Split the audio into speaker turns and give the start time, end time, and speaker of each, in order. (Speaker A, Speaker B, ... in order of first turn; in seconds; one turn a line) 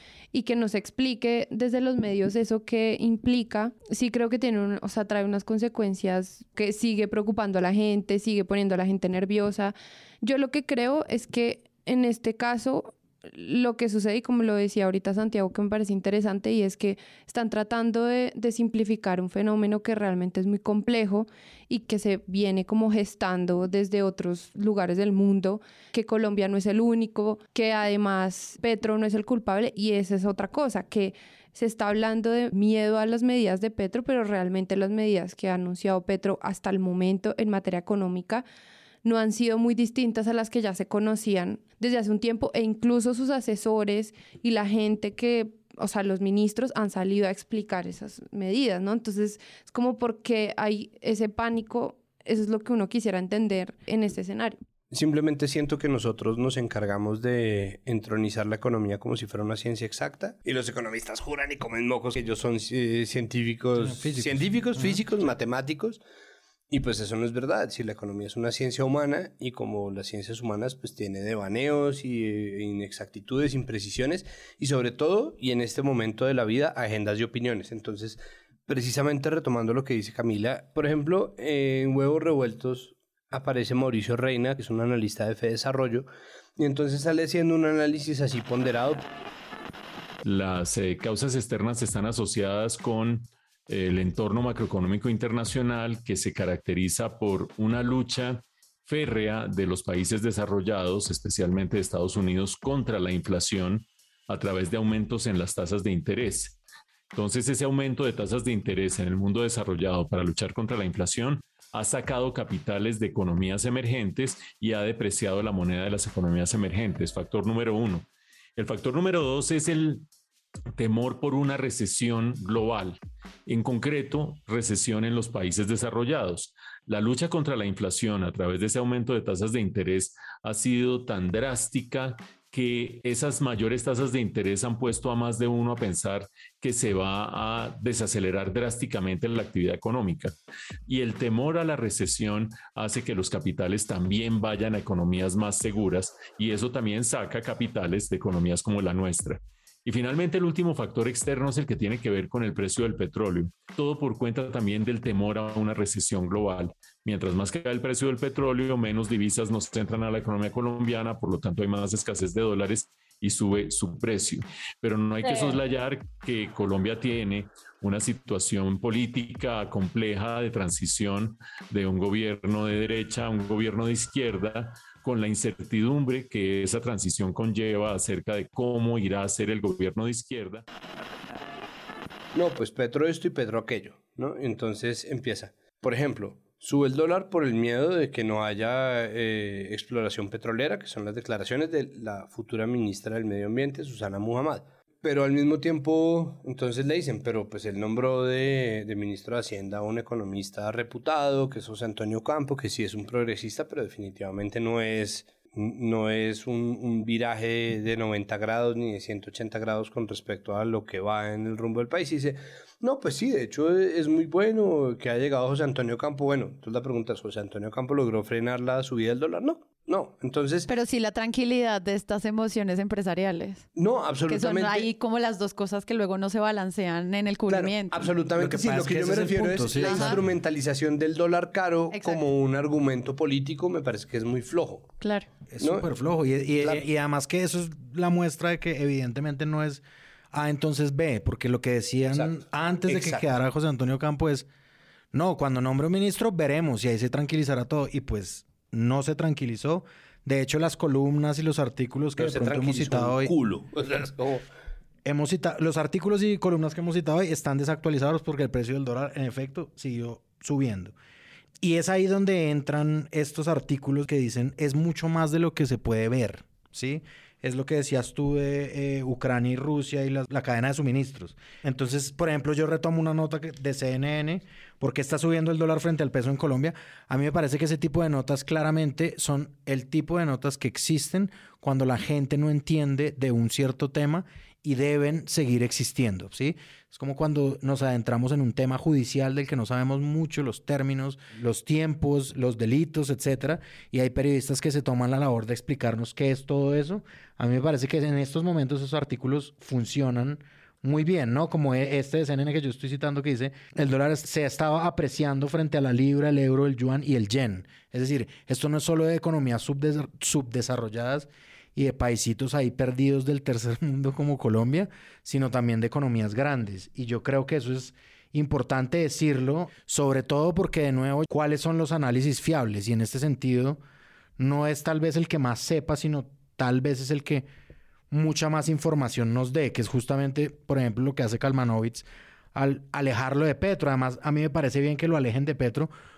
Speaker A: 0.3-38.4
Speaker A: 39.0-54.6
Speaker B: 54.9-66.0
Speaker C: 63.8-65.0
Speaker B: 66.7-89.0
Speaker D: 90.2-106.6
Speaker D: 107.1-120.1
Speaker D: 120.7-140.3
Speaker D: 140.9-180.6
Speaker B: 182.3-220.7
Speaker E: 220.7-223.7
Speaker B: 223.8-224.9
Speaker E: 224.3-228.0
Speaker B: 227.5-234.9
Speaker C: 228.3-230.2
Speaker E: 229.8-230.2
Speaker E: 231.9-232.2
Speaker E: 235.0-235.3
Speaker C: 235.5-244.5
Speaker B: 235.6-235.9
Speaker B: 242.1-243.2
Speaker C: 245.1-253.3
Speaker B: 252.2-254.4
Speaker C: 255.0-260.9
Speaker C: 261.6-323.8
Speaker C: 324.4-327.5
Speaker C: 328.1-335.9